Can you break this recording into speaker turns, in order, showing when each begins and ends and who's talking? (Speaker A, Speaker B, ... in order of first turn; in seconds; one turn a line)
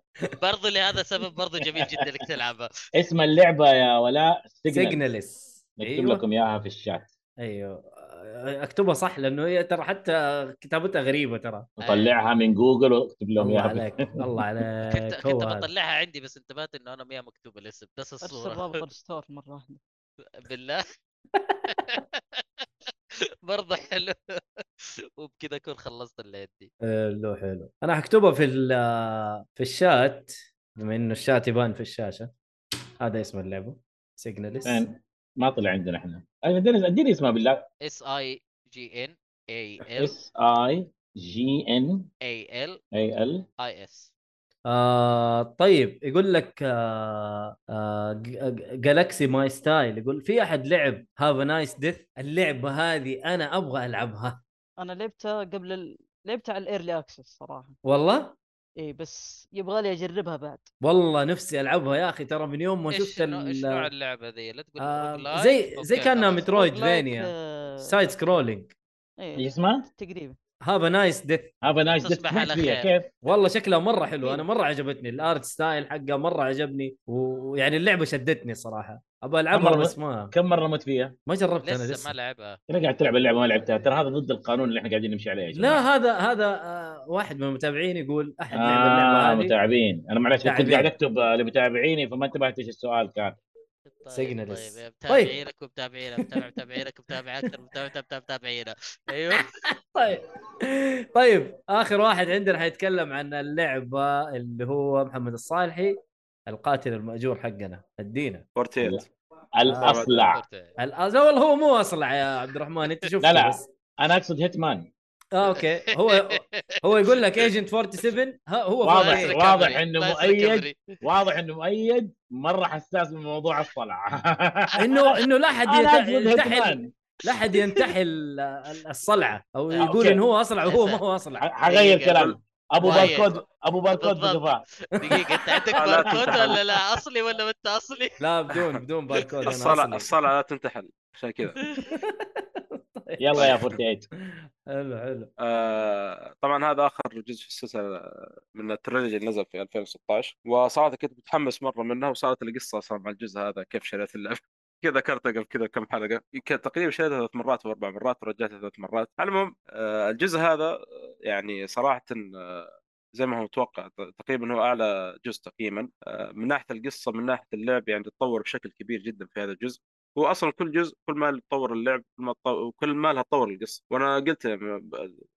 Speaker A: 0.4-2.7
Speaker B: 3.0-5.0
Speaker C: 4.7-6.2
Speaker B: 5.8-7.1
Speaker C: 7.4-11.7
Speaker B: 11.8-14.2
Speaker A: 11.8-12.2
Speaker C: 13.4-15.7
Speaker A: 14.8-18.8
Speaker D: 18.2-19.8
Speaker A: 20.4-20.8
Speaker A: 21.7-22.9
Speaker A: 23.4-26.7
Speaker C: 26.8-32.3
Speaker C: 33.0-34.8
Speaker B: 34.6-37.7
Speaker A: 37.9-40.2
Speaker B: 39.9-42.1
Speaker A: 42.2-42.8
Speaker B: 42.9-43.5
Speaker A: 43.6-44.1
Speaker C: 44.7-54.4
Speaker D: 54.8-57.8
Speaker C: 57.9-58.4
Speaker D: 58.8-60.7
Speaker C: 60.8-63.9
Speaker A: 62.9-66.5
Speaker C: 64.8-68.7
Speaker D: 66.5-68.0
Speaker D: 69.2-69.5
Speaker B: 69.4-69.9
Speaker D: 70.0-70.4
Speaker C: 70.6-71.5
Speaker B: 71.6-73.1
Speaker A: 72.0-72.9
Speaker C: 73.2-80.3
Speaker B: 79.5-81.2
Speaker C: 81.3-82.2
Speaker A: 81.6-82.6
Speaker B: 82.7-85.8
Speaker C: 85.5-89.5
Speaker B: 88.5-93.4
Speaker C: 90.4-90.9
Speaker A: 93.9-99.5
Speaker C: 94.1-95.3
Speaker C: 96.2-96.6
Speaker C: 99.3-108.5
Speaker E: 108.6-109.1
Speaker B: 109.6-110.4
Speaker C: 109.7-110.0
Speaker E: 109.8-110.1
Speaker A: 109.9-110.8
Speaker C: 110.8-113.7
Speaker B: 113.2-114.9
Speaker C: 115.3-119.4
Speaker A: 115.5-117.5
Speaker B: 118.8-125.1
Speaker A: 118.9-120.8
Speaker C: 124.8-131.4
Speaker B: 125.7-126.9
Speaker A: 129.7-131.0
Speaker B: 129.8-130.2
Speaker B: 131.4-134.6
Speaker A: 131.7-133.4
Speaker A: 134.0-138.2
Speaker E: 135.8-136.6
Speaker B: 136.1-136.4
Speaker C: 138.2-140.1
Speaker E: 139.5-141.6
Speaker C: 141.7-143.6
Speaker B: 143.2-144.1
Speaker E: 143.4-143.7
Speaker C: 144.3-145.3
Speaker E: 145.4-148.0
Speaker E: 148.5-175.2